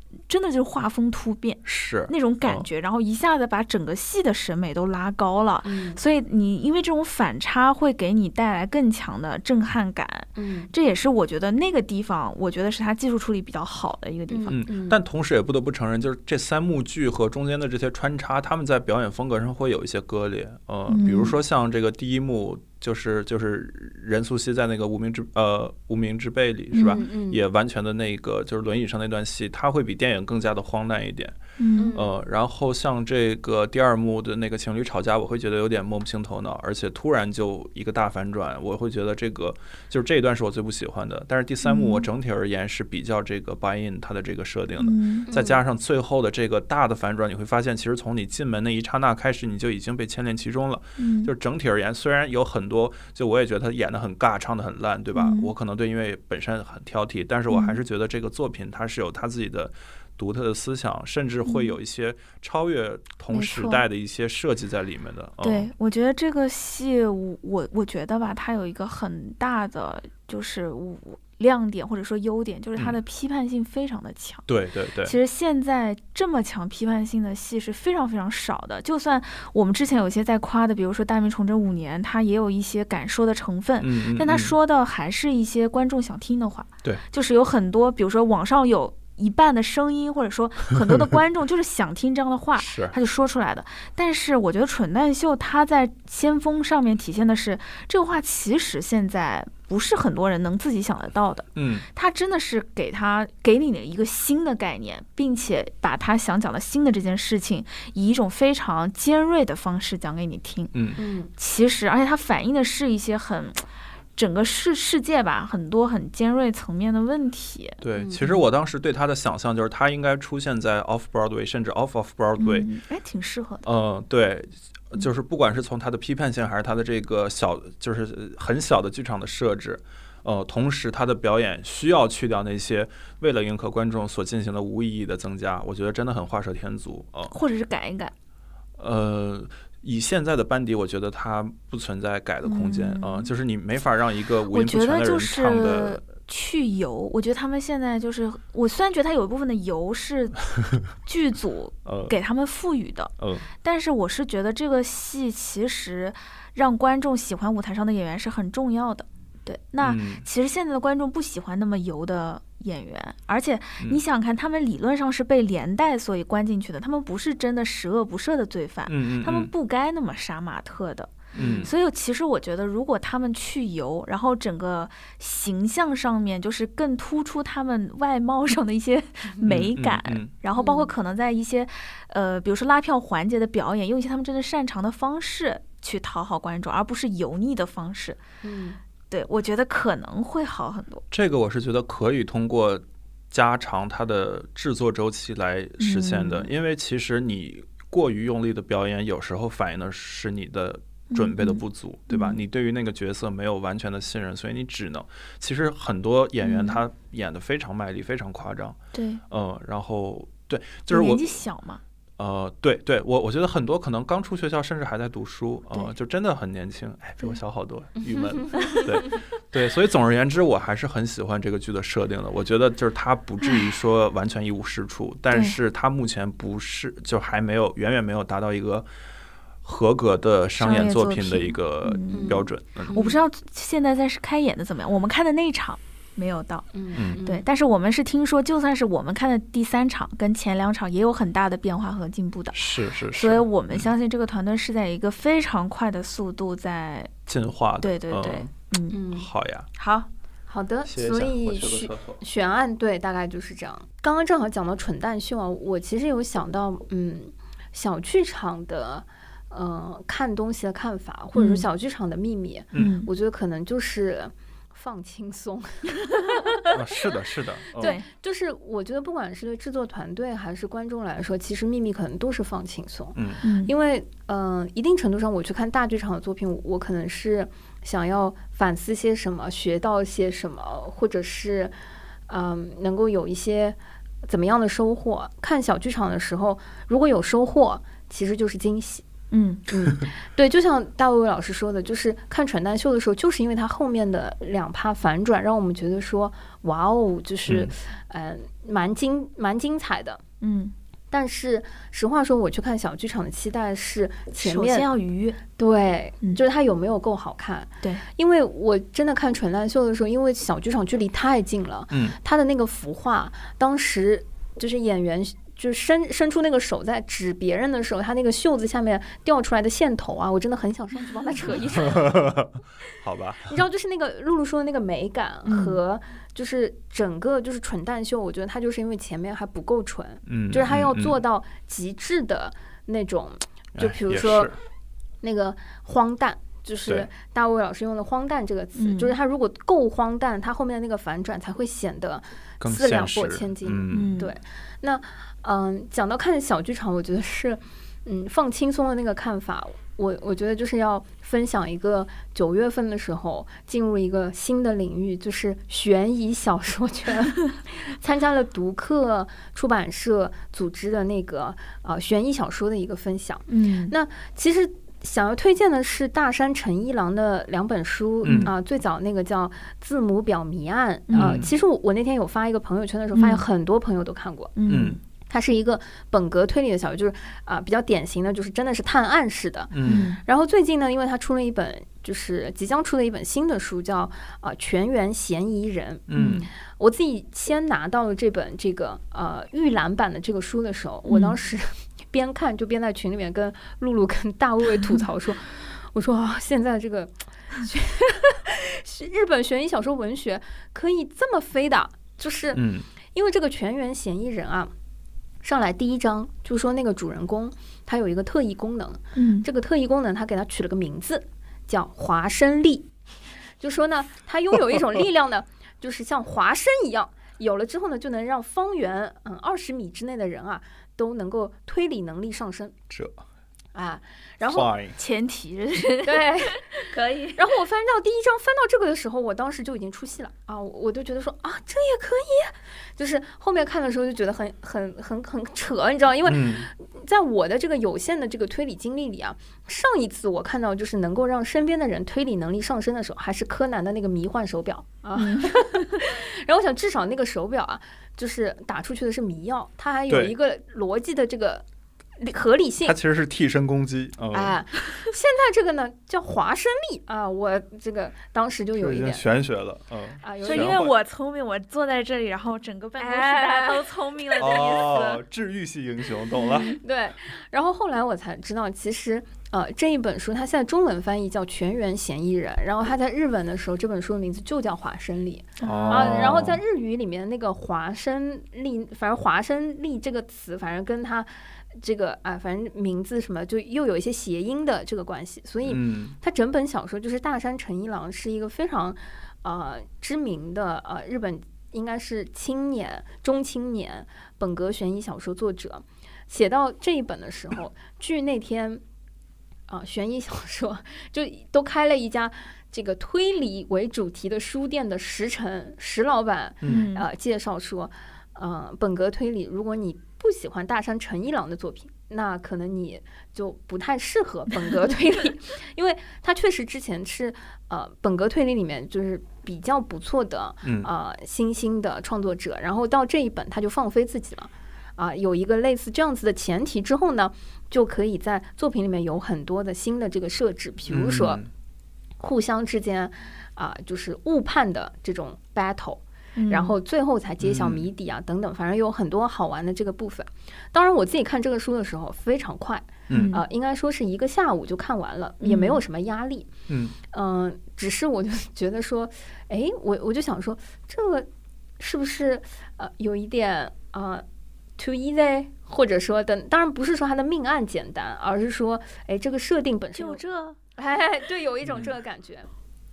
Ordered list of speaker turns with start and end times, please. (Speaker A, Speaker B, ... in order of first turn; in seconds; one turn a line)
Speaker A: 0.3-14.6
Speaker B: 1.6-2.7
Speaker C: 5.6-6.0
Speaker C: 10.3-10.7
Speaker C: 14.3-15.0
Speaker B: 14.5-31.4
Speaker A: 20.9-21.3
Speaker C: 26.7-27.4
Speaker A: 26.8-27.0
Speaker A: 31.6-31.9
Speaker C: 31.8-32.1
Speaker B: 31.9-65.7
Speaker A: 41.6-42.1
Speaker A: 44.8-45.3
Speaker C: 45.3-45.6
Speaker A: 51.0-51.3
Speaker A: 55.1-55.5
Speaker A: 57.5-57.8
Speaker A: 61.4-61.8
Speaker A: 63.3-63.8
Speaker A: 65.4-74.5
Speaker B: 74.5-75.2
Speaker A: 75.0-110.7
Speaker B: 83.8-84.5
Speaker B: 92.6-92.9
Speaker B: 101.5-101.8
Speaker B: 110.7-111.0
Speaker C: 111.0-111.3
Speaker A: 111.3-113.6
Speaker A: 114.2-118.3
Speaker B: 117.8-122.7
Speaker C: 118.0-118.2
Speaker A: 122.4-123.7
Speaker B: 123.6-137.3
Speaker A: 137.3-138.1
Speaker B: 138.8-146.0
Speaker A: 142.4-143.3
Speaker A: 144.5-153.1
Speaker B: 151.8-152.1
Speaker B: 153.2-153.5
Speaker A: 153.6-188.2
Speaker B: 159.8-160.2
Speaker B: 168.9-169.5
Speaker C: 171.3-171.7
Speaker B: 171.3-171.7
Speaker B: 179.4-180.3
Speaker C: 180.5-180.9
Speaker C: 188.4-188.8
Speaker A: 189.1-191.0
Speaker B: 191.1-208.8
Speaker A: 195.8-196.5
Speaker A: 201.1-202.4
Speaker A: 206.4-206.8
Speaker A: 208.9-209.2
Speaker B: 209.3-211.2
Speaker A: 210.9-211.8
Speaker B: 212.2-228.9
Speaker C: 218.0-219.1
Speaker A: 225.3-225.6
Speaker B: 229.6-232.9
Speaker A: 230.6-236.7
Speaker C: 232.1-233.2
Speaker C: 236.7-237.4
Speaker A: 237.2-247.1
Speaker B: 242.5-243.9
Speaker B: 247.3-248.5
Speaker A: 247.8-249.0
Speaker C: 248.9-249.3
Speaker B: 249.1-249.7
Speaker A: 249.8-250.1
Speaker C: 250.5-266.7
Speaker B: 250.8-252.2
Speaker A: 261.3-261.6
Speaker A: 262.7-263.1
Speaker B: 266.7-267.9
Speaker C: 267.8-281.7
Speaker A: 267.8-268.1
Speaker B: 273.1-273.4
Speaker A: 273.4-273.7
Speaker C: 282.3-289.0
Speaker A: 289.3-289.6
Speaker C: 289.7-300.2
Speaker B: 297.5-297.7
Speaker A: 300.4-300.7
Speaker C: 301.1-304.9
Speaker A: 304.4-305.4
Speaker C: 305.6-322.1
Speaker B: 311.9-312.2
Speaker B: 321.7-323.6
Speaker C: 323.5-334.5
Speaker A: 325.4-325.8
Speaker B: 330.2-331.2
Speaker B: 333.7-334.5
Speaker C: 335.2-374.5
Speaker A: 338.8-339.1
Speaker B: 342.6-344.2
Speaker A: 343.9-344.3
Speaker A: 363.5-363.9
Speaker B: 368.2-368.5
Speaker A: 371.1-371.4
Speaker B: 371.1-371.5
Speaker A: 373.1-373.4
Speaker A: 374.6-375.0
Speaker B: 374.7-375.0
Speaker C: 375.3-386.1
Speaker B: 379.7-380.1
Speaker A: 379.9-380.2
Speaker B: 386.1-386.4
Speaker A: 386.1-386.5
Speaker C: 386.6-404.7
Speaker A: 391.1-391.4
Speaker B: 402.5-402.9
Speaker C: 405.4-412.9
Speaker A: 409.1-409.4
Speaker C: 413.6-422.7
Speaker B: 422.9-423.2
Speaker C: 423.7-424.7
Speaker B: 424.5-425.0
Speaker A: 424.9-427.4
Speaker C: 426.0-451.6
Speaker B: 436.2-436.7
Speaker A: 445.1-445.7
Speaker B: 450.1-450.3
Speaker C: 452.2-453.0
Speaker B: 452.8-454.6
Speaker C: 454.3-459.2
Speaker B: 458.8-460.9
Speaker C: 460.2-460.8
Speaker A: 460.4-465.2
Speaker C: 463.0-463.9
Speaker B: 464.4-466.8
Speaker A: 466.4-466.8
Speaker C: 466.7-498.8
Speaker A: 475.6-476.4
Speaker B: 475.6-476.6
Speaker B: 485.6-486.2
Speaker C: 499.7-531.4
Speaker B: 506.6-506.9
Speaker A: 506.6-507.1
Speaker B: 520.6-520.9
Speaker B: 530.9-531.5
Speaker C: 532.2-546.5
Speaker A: 536.4-536.8
Speaker B: 537.4-537.9
Speaker B: 543.1-543.4
Speaker A: 543.1-543.4
Speaker A: 545.4-545.8
Speaker B: 546.7-547.0
Speaker C: 547.1-551.3
Speaker C: 551.8-554.2
Speaker C: 554.8-560.2
Speaker A: 559.9-560.6
Speaker C: 560.8-562.5